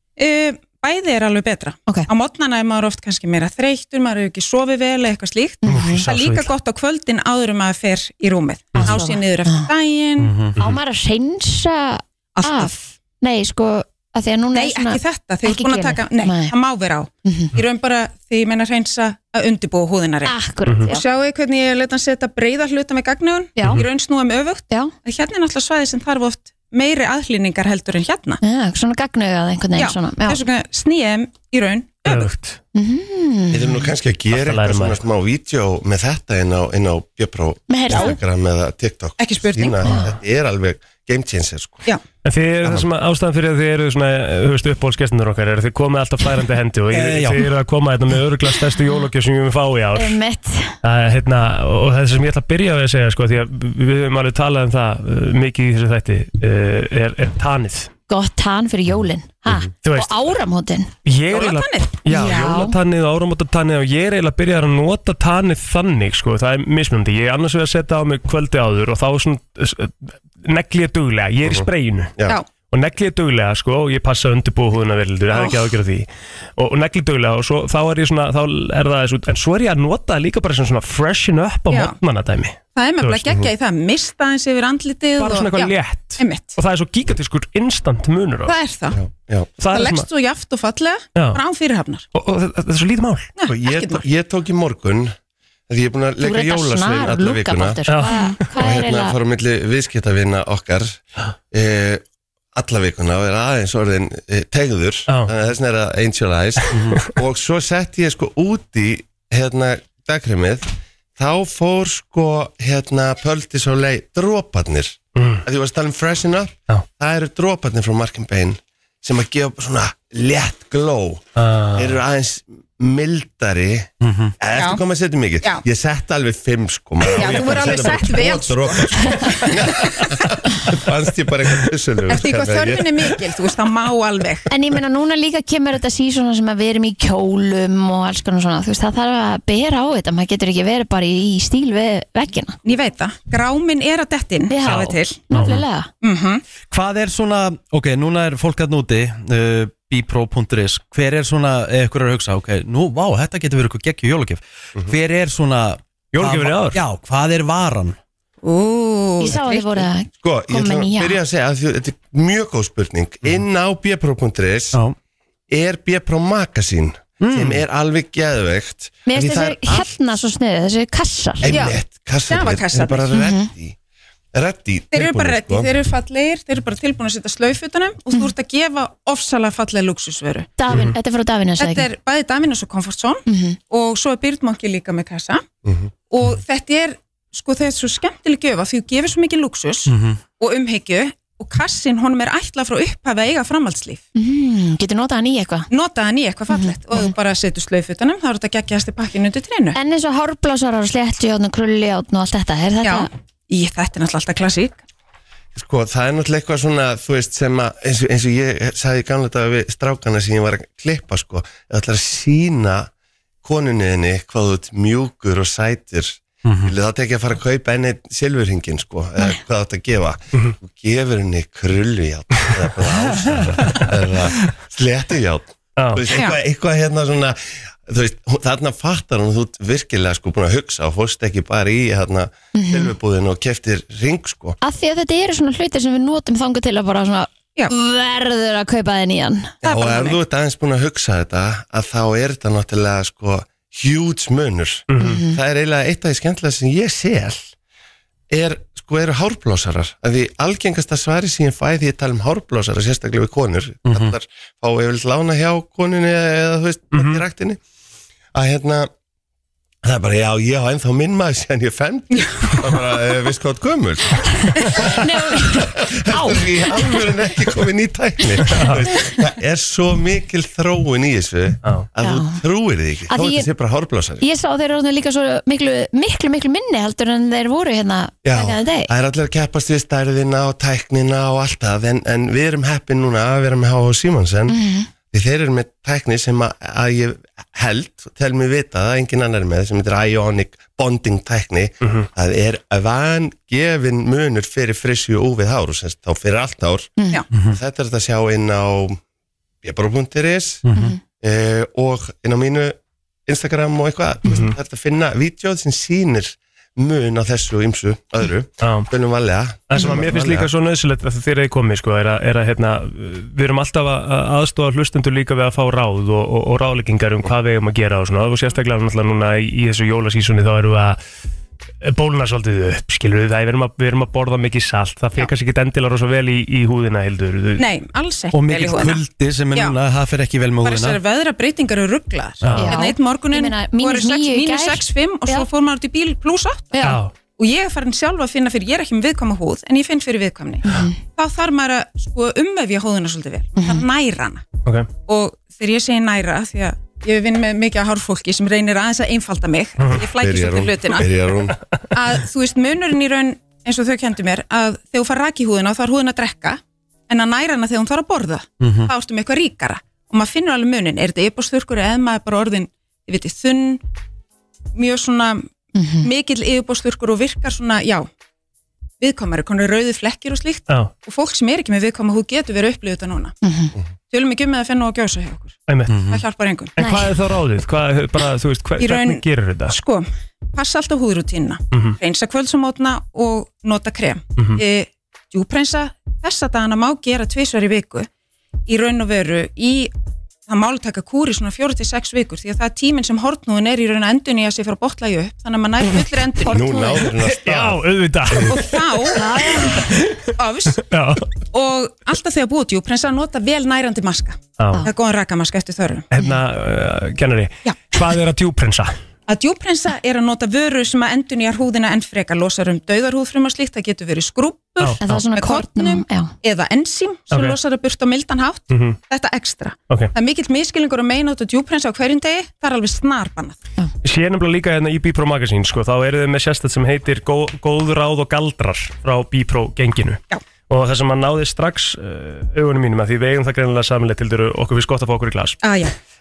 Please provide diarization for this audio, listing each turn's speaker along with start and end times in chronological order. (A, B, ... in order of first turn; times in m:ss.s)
0:00.2-0:10.3 A
0:05.6-0:06.0 B
0:05.7-0:06.5 C
0:08.8-0:09.7 B
0:10.2-0:10.6 C
0:10.6-0:16.5 B
0:12.4-0:12.8 A
0:14.5-0:20.3 A
0:17.2-0:17.5 B
0:20.2-0:21.0 B
0:20.9-0:28.4 A
0:23.6-0:23.8 B
0:28.4-0:30.4 B
0:29.8-0:32.3 A
0:32.0-0:32.6 D
0:32.7-0:33.8 B
0:33.5-0:41.8 E
0:34.3-0:35.0 D
0:37.7-0:38.2 B
0:37.9-0:38.2 A
0:39.2-0:40.0 A
0:39.8-0:40.1 B
0:42.2-0:50.2 D
0:46.9-0:47.4 C
0:50.0-0:50.8 B
0:50.8-0:57.9 D
0:58.1-1:00.9 B
0:59.8-1:00.2 D
1:01.0-1:12.1 D
1:01.3-1:02.6 A
1:02.1-1:02.7 B
1:12.7-1:23.2 D
1:21.7-1:22.0 A
1:22.7-1:26.5 A
1:25.2-1:28.6 D
1:28.4-1:29.0 A
1:28.9-1:29.6 E
1:29.6-1:30.1 D
1:29.6-1:32.0 A
1:31.2-1:31.4 D
1:32.1-1:33.3 D
1:33.4-1:34.0 A
1:33.5-1:35.1 E
1:35.7-1:37.8 E
1:36.2-1:39.2 B
1:37.9-1:38.3 D
1:38.0-1:38.4 A
1:38.6-1:42.0 E
1:42.5-1:50.6 E
1:46.7-1:47.0 C
1:51.2-2:13.3 E
1:55.2-1:55.4 D
2:01.4-2:02.0 D
2:04.0-2:04.3 C
2:04.6-2:04.8 A
2:07.1-2:09.8 A
2:12.1-2:14.5 A
2:14.5-2:22.6 B
2:22.6-2:25.2 A
2:24.5-2:25.9 B
2:24.7-2:25.6 D
2:26.0-2:26.4 A
2:26.7-2:38.0 C
2:36.1-2:36.8 D
2:38.4-2:39.9 A
2:39.2-2:41.2 B
2:40.2-2:44.8 E
2:45.5-2:49.9 E
2:47.2-2:47.6 C
2:49.1-2:51.6 B
2:51.4-2:53.8 E
2:51.5-2:53.1 A
2:53.1-2:53.5 B
2:54.3-2:55.7 E
2:54.9-3:00.5 A
3:00.6-3:01.9 B
3:00.7-3:01.0 D
3:01.6-3:05.4 A
3:03.3-3:03.6 B
3:05.6-3:05.9 E
3:06.1-3:14.0 A
3:09.9-3:10.2 C
3:14.1-3:15.7 B
3:15.7-3:19.8 A
3:16.5-3:17.1 B
3:19.7-3:23.1 B
3:22.8-3:24.8 A
3:25.5-3:32.9 E
3:33.4-3:54.6 E
3:36.4-3:36.7 C
3:45.8-3:46.0 D
3:46.1-3:46.4 A
3:52.5-3:52.9 B
3:54.6-3:59.6 B
3:59.6-4:00.2 A
3:59.6-4:07.5 E
4:04.9-4:05.2 D
4:05.0-4:05.4 B
4:08.3-4:17.6 E
4:13.8-4:14.1 C
4:16.9-4:17.2 D
4:18.3-4:18.9 E
4:19.8-4:34.2 E
4:22.1-4:22.5 A
4:24.8-4:27.1 B
4:28.5-4:28.8 D
4:32.0-4:32.4 B
4:33.1-4:33.5 B
4:34.2-4:38.9 B
4:38.2-4:44.6 E
4:44.5-4:44.9 B
4:45.1-4:59.0 E
4:57.3-4:57.6 C
4:59.6-5:10.5 E
5:00.6-5:00.9 C
5:04.3-5:04.6 D
5:08.6-5:08.9 D
5:09.7-5:21.0 D
5:21.8-5:27.7 D
5:27.6-5:29.0 A
5:28.3-5:31.0 C
5:30.6-5:44.4 A
5:32.4-5:32.7 D
5:32.6-5:35.5 B
5:36.7-5:37.0 B
5:36.8-5:37.1 D
5:43.6-5:43.8 B
5:45.0-5:51.2 A
5:49.8-5:50.0 D
5:50.0-5:51.6 E
5:51.9-6:03.8 A
5:58.6-5:58.9 C
6:04.8-6:05.5 A
6:05.7-6:06.1 B
6:06.0-6:08.1 A
6:09.0-6:13.3 A
6:13.4-6:13.7 B
6:14.1-6:16.7 A
6:15.7-6:16.0 D
6:15.9-6:16.2 C
6:16.8-6:19.8 D
6:16.8-6:17.1 B
6:18.8-6:28.1 A
6:21.7-6:22.0 D
6:24.4-6:24.6 D
6:28.7-6:29.9 A
6:30.5-6:37.1 A
6:36.4-6:37.0 B
6:36.4-6:38.5 E
6:37.2-6:40.2 D
6:38.4-6:39.3 A
6:39.1-6:39.9 B
6:40.4-6:40.8 A
6:40.8-6:41.3 D
6:41.5-6:46.1 A
6:44.6-6:44.8 D
6:46.1-6:49.0 D
6:49.3-7:03.6 A
6:54.8-6:55.2 D
6:55.0-6:56.3 B
6:57.3-6:57.6 D
6:58.7-6:59.0 D
7:04.0-7:15.6 D
7:15.6-7:15.9 A